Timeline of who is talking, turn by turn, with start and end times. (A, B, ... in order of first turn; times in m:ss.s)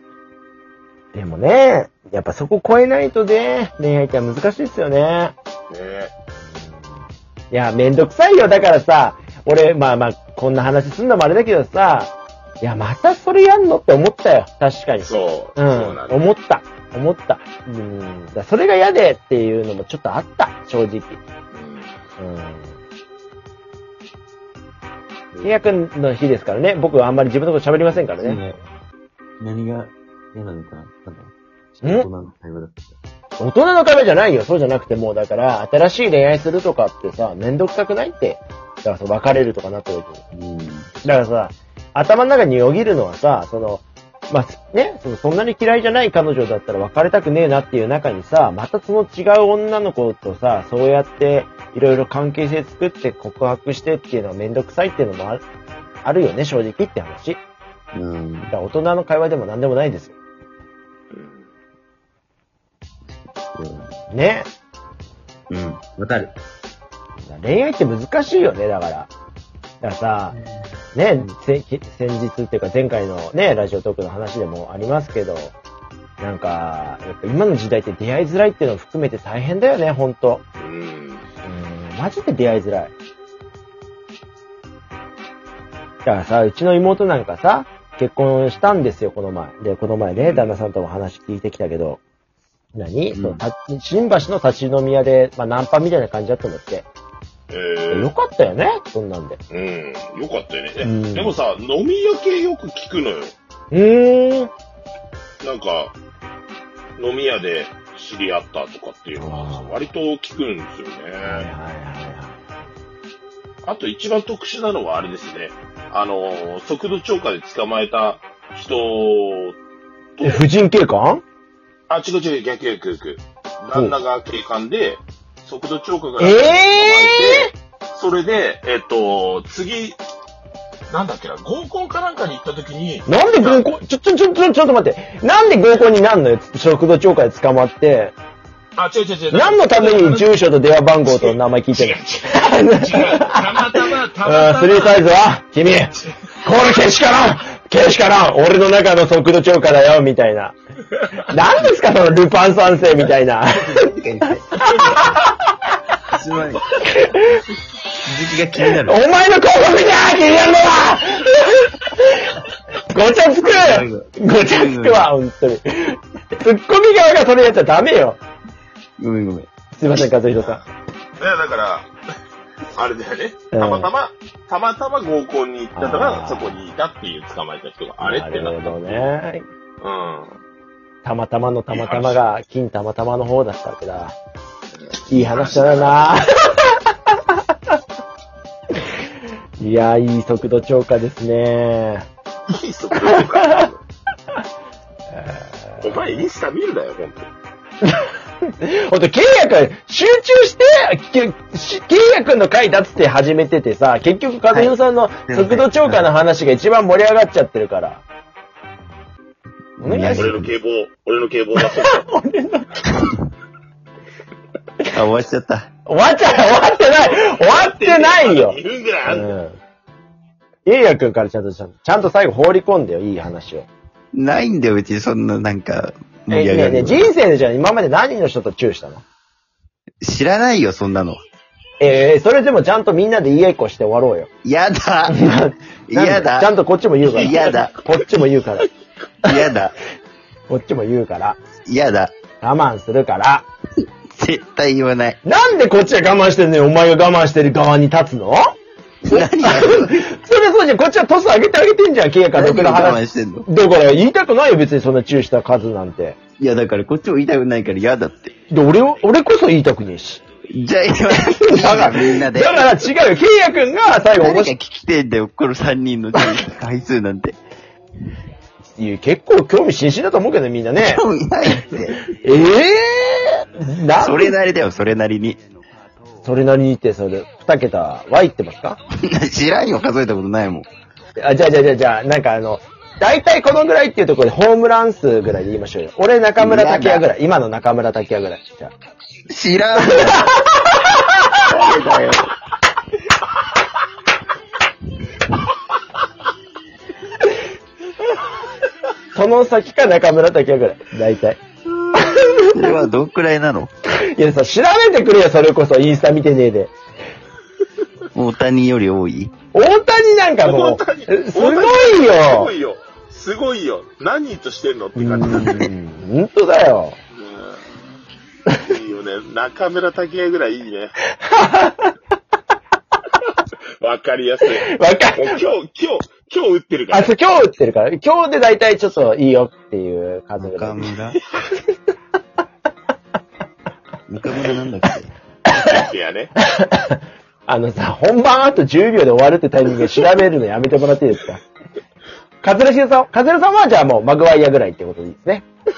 0:01.1-0:05.4 A
0:05.7-0:06.1 B
0:06.5-0:06.9 A
0:07.5-0:21.2 A
0:15.0-0:16.2 B
0:21.5-0:22.0 B
0:22.2-0:22.8 A
0:25.3-0:25.7 C
0:25.4-0:28.4 A
0:28.1-0:28.6 C
0:29.4-0:33.0 C
0:33.4-0:40.2 A
0:40.3-0:40.9 C
0:41.0-0:55.4 A
0:56.0-0:57.4 A
0:57.9-0:58.5 C
0:58.5-1:00.1 A
1:01.1-1:01.5 B
1:03.1-1:03.9 C
1:04.1-1:04.5 A
1:05.5-1:06.4 C
1:07.2-1:09.1 A
1:09.8-1:10.4 A
1:10.3-1:10.6 C
1:10.9-1:15.6 A
1:16.2-1:20.4 A
1:20.6-1:21.3 B
1:21.4-1:22.9 A
1:26.0-1:32.0 A
1:30.2-1:30.6 B
1:32.8-1:36.9 A
1:33.1-1:33.4 C
1:37.5-1:38.1 B
1:37.9-1:39.4 A
1:39.5-1:43.4 B
1:40.8-1:41.4 A
1:43.7-1:44.5 A
1:45.4-1:46.0 B
1:47.0-1:51.5 B
1:49.2-1:49.8 A
1:51.2-1:52.5 A
1:53.6-1:59.6 B
2:00.2-2:00.4 B
2:00.2-2:01.2 A
2:01.9-2:10.0 B
2:06.2-2:07.5 A
2:10.9-2:13.7 B
2:13.1-2:18.2 A
2:18.8-2:20.3 B
2:19.3-2:23.7 A
2:21.0-2:25.0 B
2:24.2-2:30.6 A
2:31.2-2:33.9 A
2:33.5-2:35.1 C
2:34.6-2:35.5 A
2:36.1-2:36.7 C
2:36.8-2:37.4 A
2:38.0-2:39.0 C
2:38.8-2:48.2 A
2:43.4-2:45.1 C
2:49.0-2:49.5 C
2:49.8-2:50.6 A
2:50.4-2:50.6 B
2:51.2-2:51.9 B
2:52.7-2:59.1 B
2:53.5-2:53.9 A
2:55.8-2:56.6 A
2:58.0-2:59.4 A
2:59.8-3:00.4 B
3:01.0-3:04.2 A
3:01.7-3:02.2 B
3:04.8-3:06.2 B
3:05.1-3:07.4 A
3:09.6-3:12.1 A
3:12.5-3:13.8 B
3:13.1-3:13.7 A
3:15.1-3:16.2 A
3:15.8-3:17.3 B
3:17.8-3:28.0 A
3:24.5-3:26.1 C
3:29.8-3:30.5 C
3:29.8-3:30.4 A
3:30.2-3:32.1 B
3:31.6-3:33.0 A
3:34.9-3:35.7 C
3:35.9-3:39.6 A
3:37.0-3:39.3 B
3:40.7-3:43.7 A
3:44.1-3:47.1 C
3:46.3-3:49.0 A
3:50.0-3:51.2 C
3:51.8-3:54.3 A
3:54.4-3:55.4 C
3:55.1-3:58.7 A
3:55.9-3:56.5 C
3:57.1-3:57.7 C
3:59.2-3:59.8 C
4:00.5-4:01.4 A
4:01.7-4:02.1 C
4:02.4-4:03.5 A
4:04.1-4:05.2 C
4:05.2-4:08.5 A
4:09.1-4:10.1 C
4:09.1-4:16.2 A
4:12.3-4:13.5 C
4:16.4-4:18.3 C
4:18.5-4:20.2 A
4:20.5-4:22.9 C
4:21.1-4:24.5 A
4:24.2-4:27.4 C
4:28.6-4:31.0 A
4:30.8-4:32.0 C
4:32.0-4:34.4 A
4:34.0-4:35.4 C
4:36.2-4:38.8 A
4:39.0-4:40.7 C
4:41.2-4:48.7 A
4:46.4-4:47.1 C
4:49.3-4:50.3 C
4:50.0-4:51.4 A
4:51.5-4:52.3 C
4:59.1-5:01.4 A
5:01.9-5:02.8 A
5:02.0-5:03.7 C
5:03.9-5:06.7 A
5:08.1-5:09.3 C
5:09.5-5:12.5 A
5:10.4-5:15.7 B
5:15.0-5:17.0 A
5:17.1-5:17.6 B
5:18.6-5:20.9 B
5:21.2-5:21.9 A
5:23.8-5:27.1 B
5:24.5-5:25.4 A
5:26.9-5:30.9 A
5:30.4-5:31.2 C
5:34.1-5:35.1 C
5:35.5-5:35.8 A
5:35.5-5:36.3 B
5:36.5-5:41.4 A
5:42.4-5:45.5 A